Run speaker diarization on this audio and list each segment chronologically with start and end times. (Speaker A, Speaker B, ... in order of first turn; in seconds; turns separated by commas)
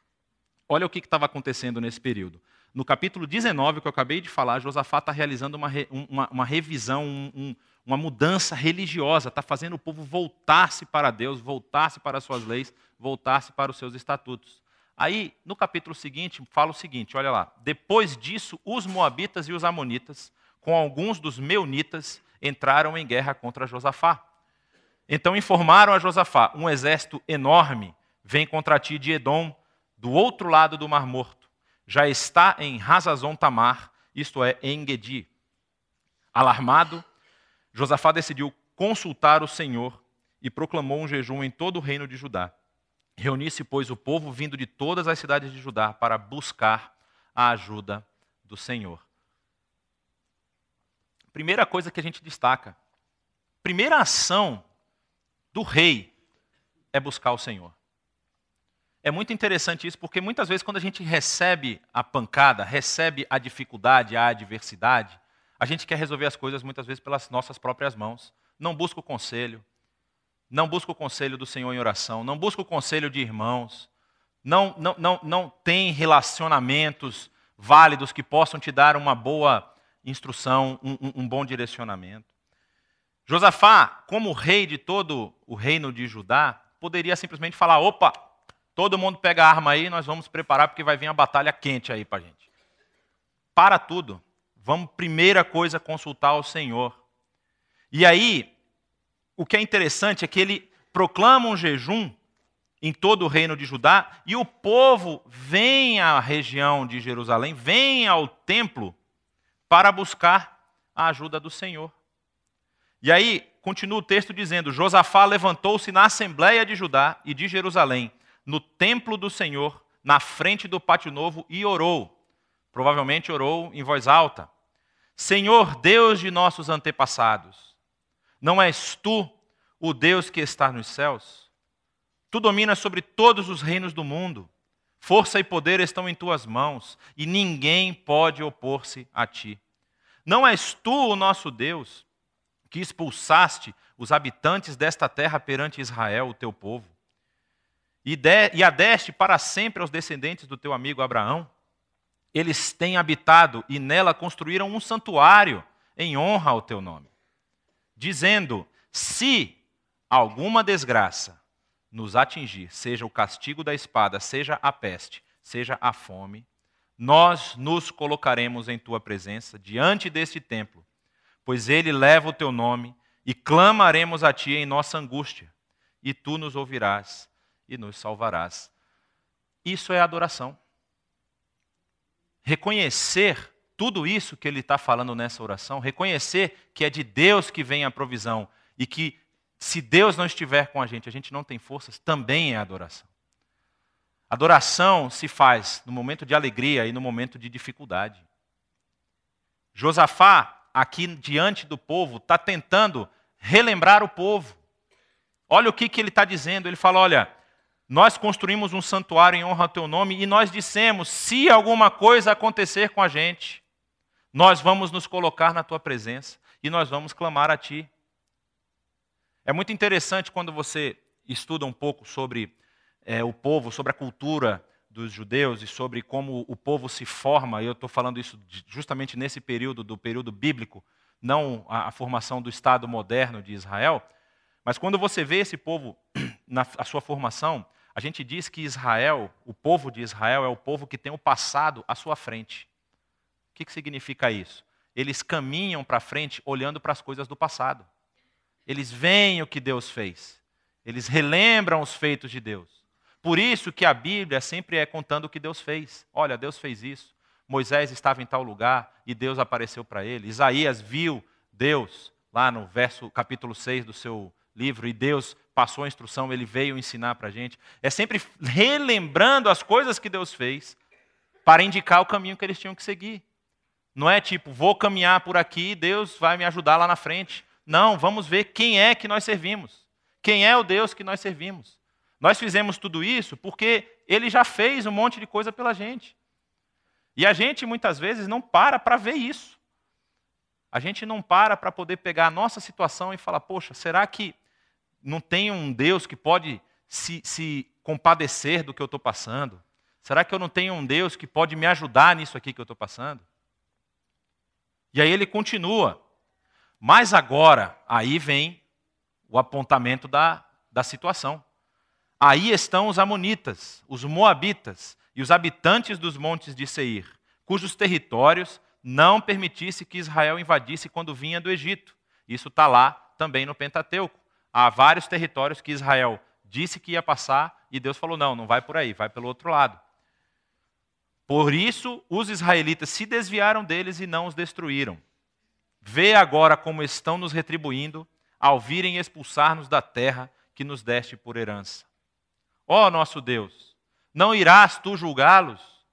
Speaker A: 0.7-24.2, Speaker A: 25.1-35.3, Speaker A: 36.3-37.0, Speaker A: 37.7-42.5, Speaker A: 43.2-49.0, Speaker A: 51.3-52.8, Speaker A: 53.6-54.6, Speaker A: 55.5-56.1, Speaker A: 56.9-57.7, Speaker A: 59.0-69.6, Speaker A: 70.5-73.9, Speaker A: 74.4-82.3, Speaker A: 83.3-88.2, Speaker A: 88.8-92.4, Speaker A: 93.5-97.0, Speaker A: 97.9-98.5, Speaker A: 99.3-102.2, Speaker A: 102.8-109.0, Speaker A: 109.7-111.9, Speaker A: 113.0-122.1, Speaker A: 122.7-124.5, Speaker A: 125.2-127.7, Speaker A: 128.4-131.5, Speaker A: 132.3-134.5, Speaker A: 135.0-139.6, Speaker A: 140.2-142.0, Speaker A: 142.7-146.9, Speaker A: 148.0-151.5, Speaker A: 152.3-157.1, Speaker A: 157.9-159.6, Speaker A: 160.1-161.4, Speaker A: 161.9-166.4, Speaker A: 167.0-170.8, Speaker A: 171.4-175.5, Speaker A: 176.0-178.7, Speaker A: 179.6-180.6, Speaker A: 182.4-193.1, Speaker A: 194.3-198.2, Speaker A: 199.7-204.6, Speaker A: 205.5-207.3, Speaker A: 207.9-213.6, Speaker A: 214.3-217.9, Speaker A: 219.4-222.5, Speaker A: 223.0-234.0, Speaker A: 234.6-242.7, Speaker A: 243.5-247.9, Speaker A: 248.7-270.8, Speaker A: 271.4-273.2, Speaker A: 273.9-286.1, Speaker A: 287.1-289.6, Speaker A: 290.7-294.3, Speaker A: 295.0-303.2, Speaker A: 304.9-306.0, Speaker A: 306.8-308.6, Speaker A: 309.3-311.4, Speaker A: 312.2-329.8, Speaker A: 331.3-335.0, Speaker A: 335.8-341.9, Speaker A: 342.7-345.7